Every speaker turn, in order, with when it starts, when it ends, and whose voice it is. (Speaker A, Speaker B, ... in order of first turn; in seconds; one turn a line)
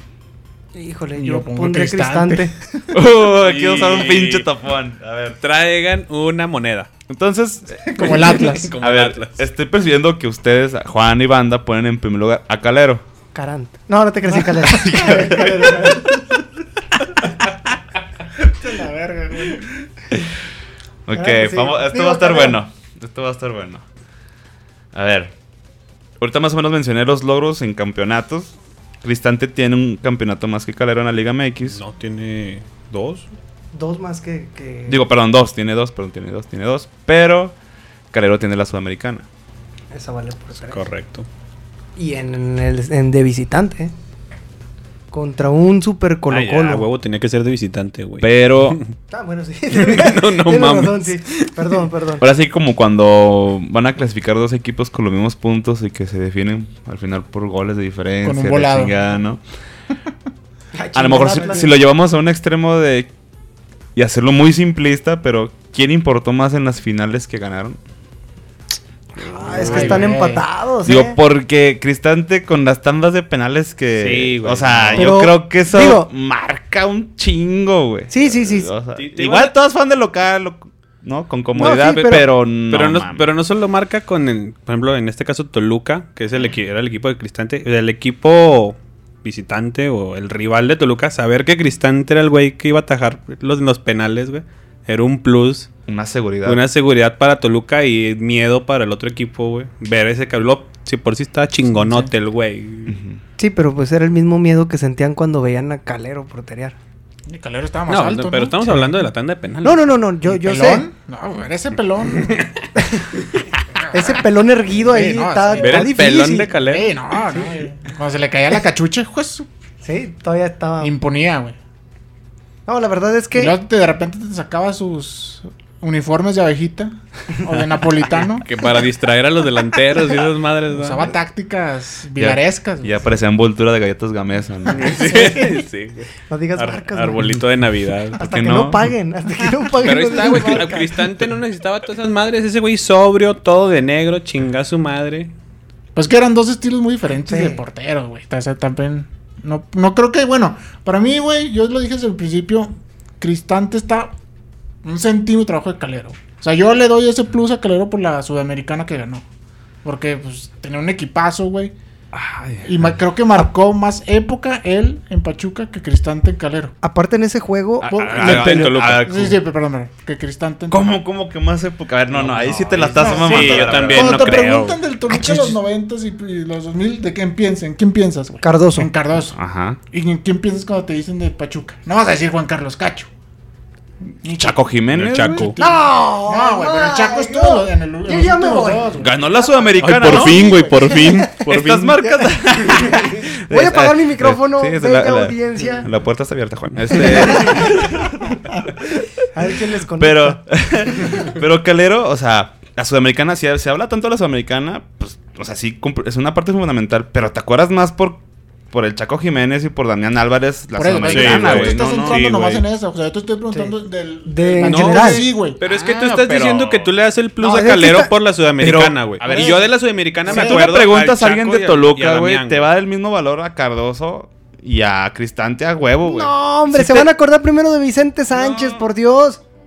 Speaker A: 0.7-2.5
Speaker B: 1.1-2.8
Speaker C: 2.9-5.4
Speaker D: 3.3-4.5
Speaker D: 5.4-6.9
Speaker C: 7.1-8.2
Speaker B: 7.8-8.7
Speaker D: 8.0-9.4
Speaker C: 8.8-13.0
Speaker A: 13.3-16.2
Speaker C: 14.8-16.0
Speaker B: 18.4-19.7
Speaker C: 21.1-23.8
Speaker A: 21.1-22.6
Speaker C: 24.9-25.3
Speaker C: 26.2-31.8
Speaker D: 31.7-33.2
Speaker A: 33.7-35.0
Speaker C: 34.9-37.5
Speaker C: 38.1-39.2
Speaker A: 39.9-40.8
Speaker D: 40.6-41.3
Speaker A: 42.0-43.9
Speaker A: 45.1-46.9
Speaker D: 46.3-48.9
Speaker C: 48.2-48.8
Speaker A: 49.1-52.2
Speaker D: 49.7-51.7
Speaker C: 52.2-59.4
Speaker B: 58.2-58.9
Speaker A: 60.7-61.7
Speaker C: 60.9-63.1
Speaker C: 63.9-67.8
Speaker A: 69.2-71.2
Speaker D: 69.3-70.1
Speaker B: 69.5-70.4
Speaker C: 70.8-83.3
Speaker D: 74.0-75.1
Speaker A: 74.9-76.1
Speaker A: 78.1-78.7
Speaker D: 79.0-79.5
Speaker A: 81.6-82.3
Speaker D: 81.6-95.7
Speaker C: 95.9-96.6
Speaker D: 96.4-103.0
Speaker B: 101.7-102.1
Speaker C: 102.9-103.2
Speaker A: 103.4-106.8
Speaker B: 107.3-109.0
Speaker D: 107.9-109.9
Speaker A: 109.6-110.8
Speaker B: 110.2-112.5
Speaker A: 112.8-113.0
Speaker B: 113.8-114.2
Speaker A: 113.9-116.5
Speaker B: 114.8-116.0
Speaker D: 115.6-116.9
Speaker B: 116.6-119.5
Speaker A: 119.8-120.9
Speaker B: 120.8-121.6
Speaker A: 122.7-123.5
Speaker B: 123.3-128.5
Speaker D: 128.1-131.1
Speaker B: 130.7-133.0
Speaker C: 132.2-135.0
Speaker D: 134.7-138.2
Speaker A: 135.1-135.6
Speaker A: 136.3-137.3
Speaker A: 138.2-141.0
Speaker C: 138.2-138.9
Speaker D: 139.8-145.3
Speaker B: 145.9-154.1
Speaker A: 147.3-147.6
Speaker B: 154.8-159.2
Speaker B: 159.8-161.7
Speaker C: 162.1-162.9
Speaker B: 162.6-166.7
Speaker A: 166.8-168.4
Speaker C: 167.8-169.4
Speaker B: 167.9-171.0
Speaker D: 168.0-169.1
Speaker C: 170.7-174.5
Speaker D: 172.1-175.4
Speaker B: 172.8-179.4
Speaker A: 178.4-178.9
Speaker C: 179.3-179.8
Speaker B: 179.9-183.1
Speaker B: 184.2-184.6
Speaker C: 184.3-185.5
Speaker D: 184.9-185.6
Speaker B: 185.3-189.1
Speaker A: 185.6-189.1
Speaker C: 189.0-190.6
Speaker D: 189.8-192.0
Speaker B: 190.0-190.7
Speaker A: 190.5-191.4
Speaker C: 191.4-199.1
Speaker A: 192.0-195.9
Speaker D: 196.8-197.7
Speaker A: 197.2-197.7
Speaker A: 199.3-200.4
Speaker C: 200.0-212.4
Speaker B: 210.8-216.1
Speaker D: 211.0-212.6
Speaker A: 214.2-215.3
Speaker D: 214.6-222.7
Speaker C: 215.8-216.9
Speaker A: 217.4-218.1
Speaker C: 218.6-219.7
Speaker B: 219.3-219.7
Speaker C: 220.2-227.0
Speaker B: 220.3-220.7
Speaker A: 226.0-229.4
Speaker C: 228.3-228.8